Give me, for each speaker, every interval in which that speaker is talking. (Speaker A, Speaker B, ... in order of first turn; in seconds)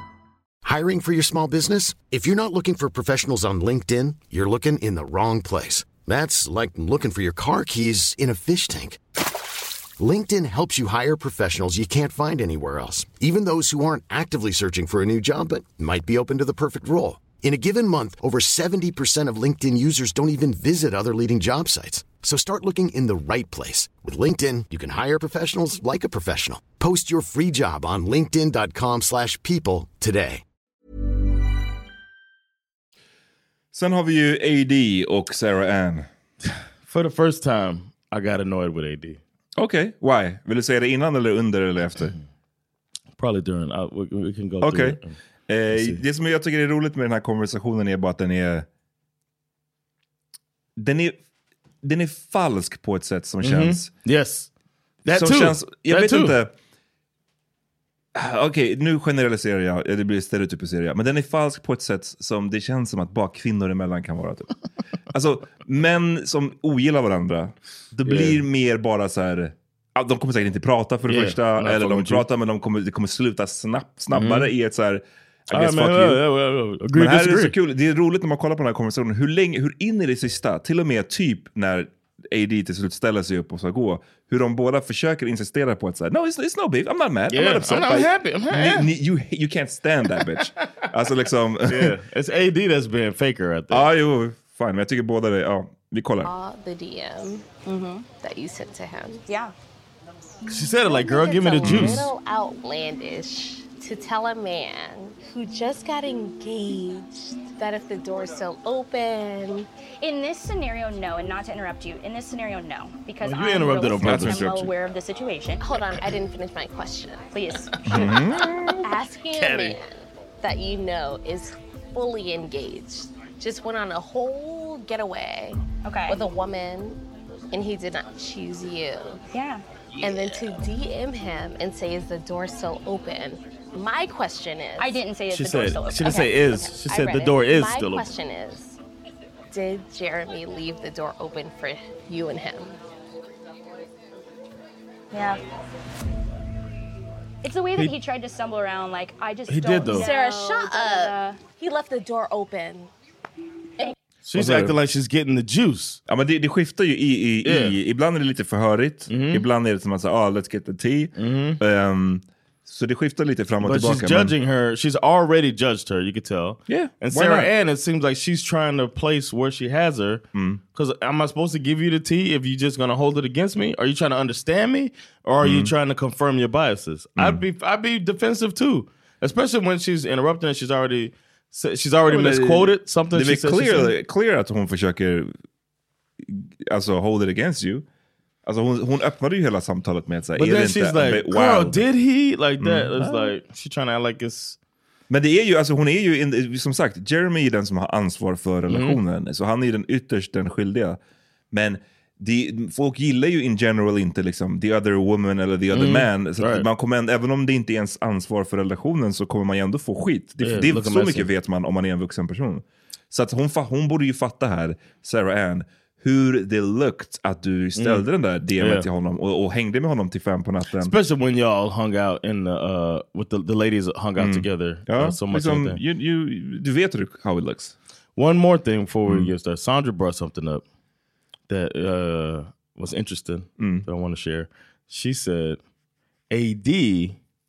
Speaker A: 0.6-9.0, 10.0-30.4
Speaker B: 33.7-36.1, 39.6-42.1, 44.6-48.7, 50.8-51.2, 51.8-53.9, 55.1-56.5, 58.1-64.5, 65.1-76.2, 76.9-92.0, 93.7-96.3, 101.6-102.0, 114.0-114.7, 117.9-118.5, 154.3-154.8, 156.1-164.3, 166.7-167.5, 170.3-170.6, 175.4-175.7, 177.2-177.4, 182.1-185.3, 186.3-187.9, 188.5-191.9, 192.6-193.3, 195.1-201.0, 201.5-221.0, 224.2-227.8, 229.1-229.3, 233.6-233.9
Speaker C: 36.9-39.2, 43.2-45.2, 45.7-46.0, 53.4-54.5, 55.0-56.4, 68.1-68.4, 71.1-72.2, 74.1-74.5, 75.5-77.6, 87.3-88.9, 91.7-93.9, 100.5-102.1, 113.2-114.6, 119.3-119.8, 135.3-138.1, 149.5-150.1, 154.3-156.0, 157.4-157.8, 159.1-159.5, 161.2-161.6, 163.6-183.9, 190.4-194.6, 198.7-199.0, 205.7-206.7, 210.4-211.3, 217.8-218.9, 220.8-225.8, 228.2-230.6, 231.5-235.6, 236.3-237.2
Speaker D: 96.2-97.5, 98.2-99.2, 100.8-109.7, 115.6-117.3, 118.0-127.0, 127.5-129.2, 130.0-135.1, 136.0-138.8, 139.5-142.8, 149.9-152.9
Speaker E: 97.7-98.1, 99.3-99.5, 110.0-115.6, 117.3-118.1, 125.8-126.2, 129.3-129.6, 134.8-136.4, 145.1-145.4, 147.4-151.4